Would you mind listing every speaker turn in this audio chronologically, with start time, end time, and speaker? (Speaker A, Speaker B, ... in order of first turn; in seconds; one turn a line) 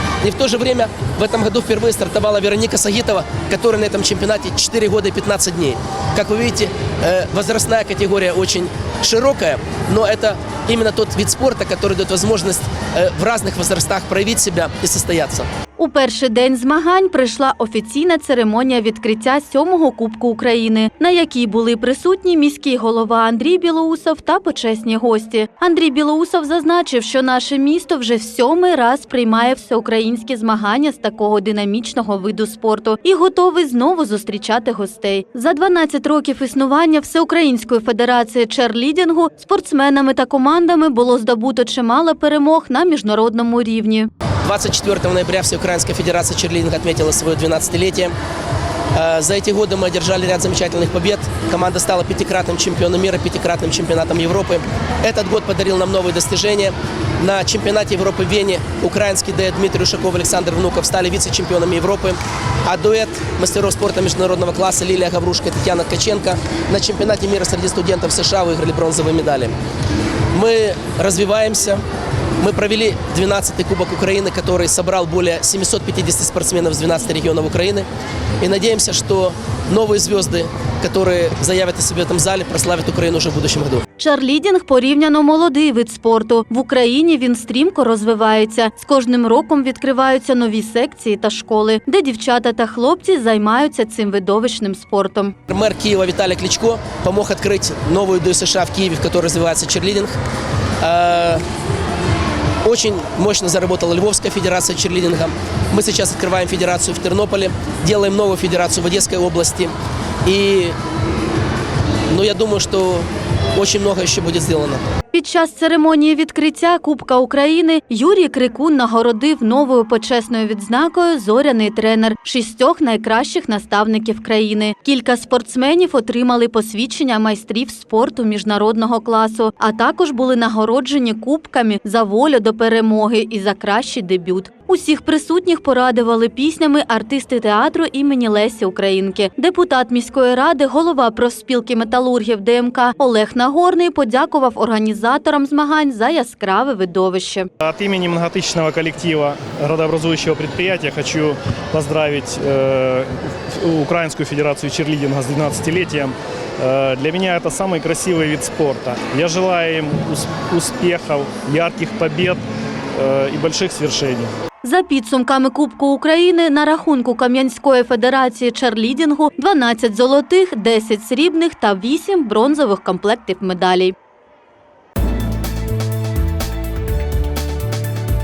Speaker A: 0.2-15.5
Speaker B: 15.8-44.1
Speaker A: 44.4-48.1
Speaker A: 48.9-69.6
Speaker A: 70.3-71.8
Speaker A: 72.4-77.9
Speaker A: 78.4-83.8
Speaker B: 84.0-95.3
Speaker A: 95.5-100.2
Speaker A: 100.8-101.4
Speaker A: 102.6-110.8
Speaker A: 112.1-114.9
Speaker B: 115.1-147.5
Speaker C: 147.6-162.4
Speaker C: 162.9-164.3
Speaker B: 164.6-173.9